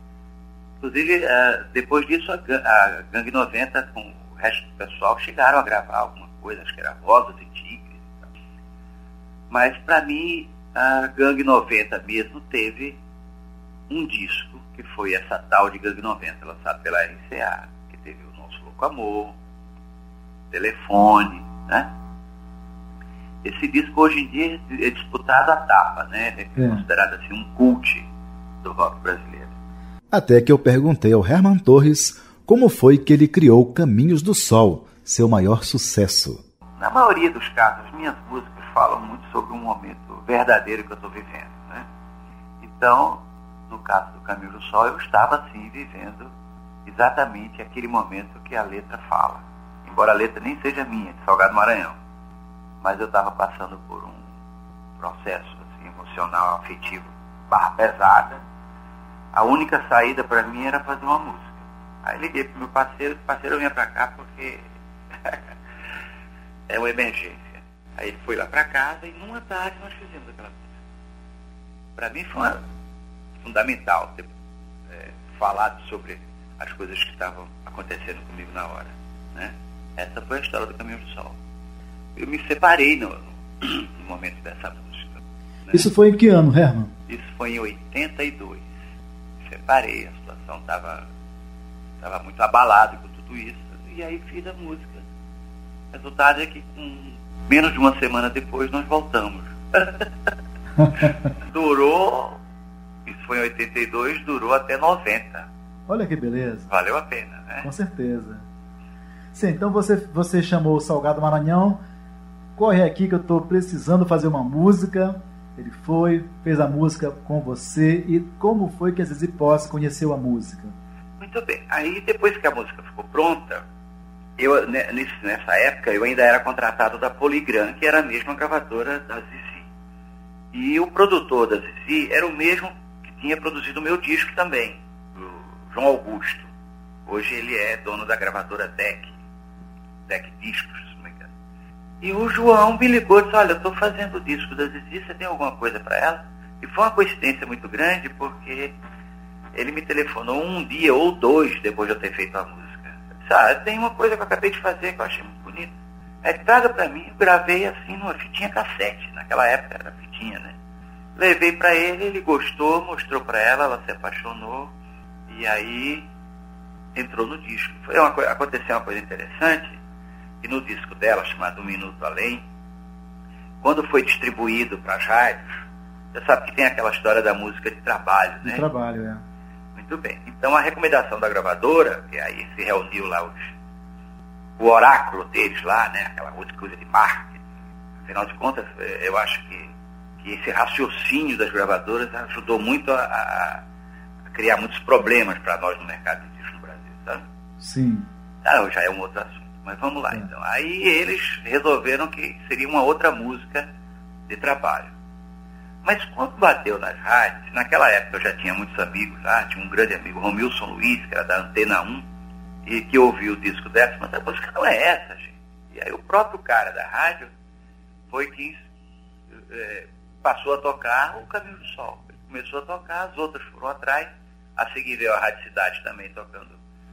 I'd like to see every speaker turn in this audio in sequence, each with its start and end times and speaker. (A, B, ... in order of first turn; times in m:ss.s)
0:00.8-0:08.3 A
0:09.5-0:13.0 A
0:13.9-0:19.3 A
0:20.5-0:21.9 A
0:23.4-0:28.1 A
0:26.6-0:26.8 B
0:28.6-0:29.5 A
0:30.1-0:36.4 C
0:36.8-0:41.8 A
0:42.6-0:46.3 A
0:46.8-0:52.0 A
0:52.8-0:54.2 A
0:55.0-0:58.4 A
0:59.3-1:04.6 A
1:06.7-1:10.7 A
1:12.0-1:12.6 A
1:13.4-1:14.3 A
1:14.9-1:21.4 A
1:22.2-1:25.9 A
1:25.7-1:26.9 B
1:27.1-1:28.6 A
1:29.4-1:31.0 A
1:32.0-1:35.0 A
1:35.9-1:40.1 A
1:41.5-1:42.4 A
1:43.0-1:45.5 A
1:45.9-1:46.7 B
1:46.7-1:47.7 A
1:47.6-1:48.4 B
1:49.3-1:51.8 B
1:52.6-2:00.7 B
2:01.2-2:03.6 A
2:04.4-2:09.6 A
2:10.5-2:16.5 A
2:17.0-2:19.2 A
2:20.1-2:21.3 A
2:22.0-2:28.7 A
2:29.6-2:35.7 A
2:36.2-2:40.5 A
2:41.2-2:44.7 A
2:45.3-2:46.0 A
2:47.0-2:49.8 A
2:50.4-2:52.4 A
2:53.6-2:55.5 A
2:56.1-2:58.7 A
2:58.4-2:59.2 B
2:59.7-3:03.5 A
3:04.6-3:07.4 A
3:08.0-3:09.7 A
3:10.2-3:13.6 A
3:14.3-3:17.2 A
3:17.6-3:18.0 B
3:18.4-3:23.7 A
3:24.3-3:24.9 A
3:25.8-3:32.0 A
3:32.7-3:37.3 A
3:38.1-3:38.6 A
3:39.5-3:46.6 A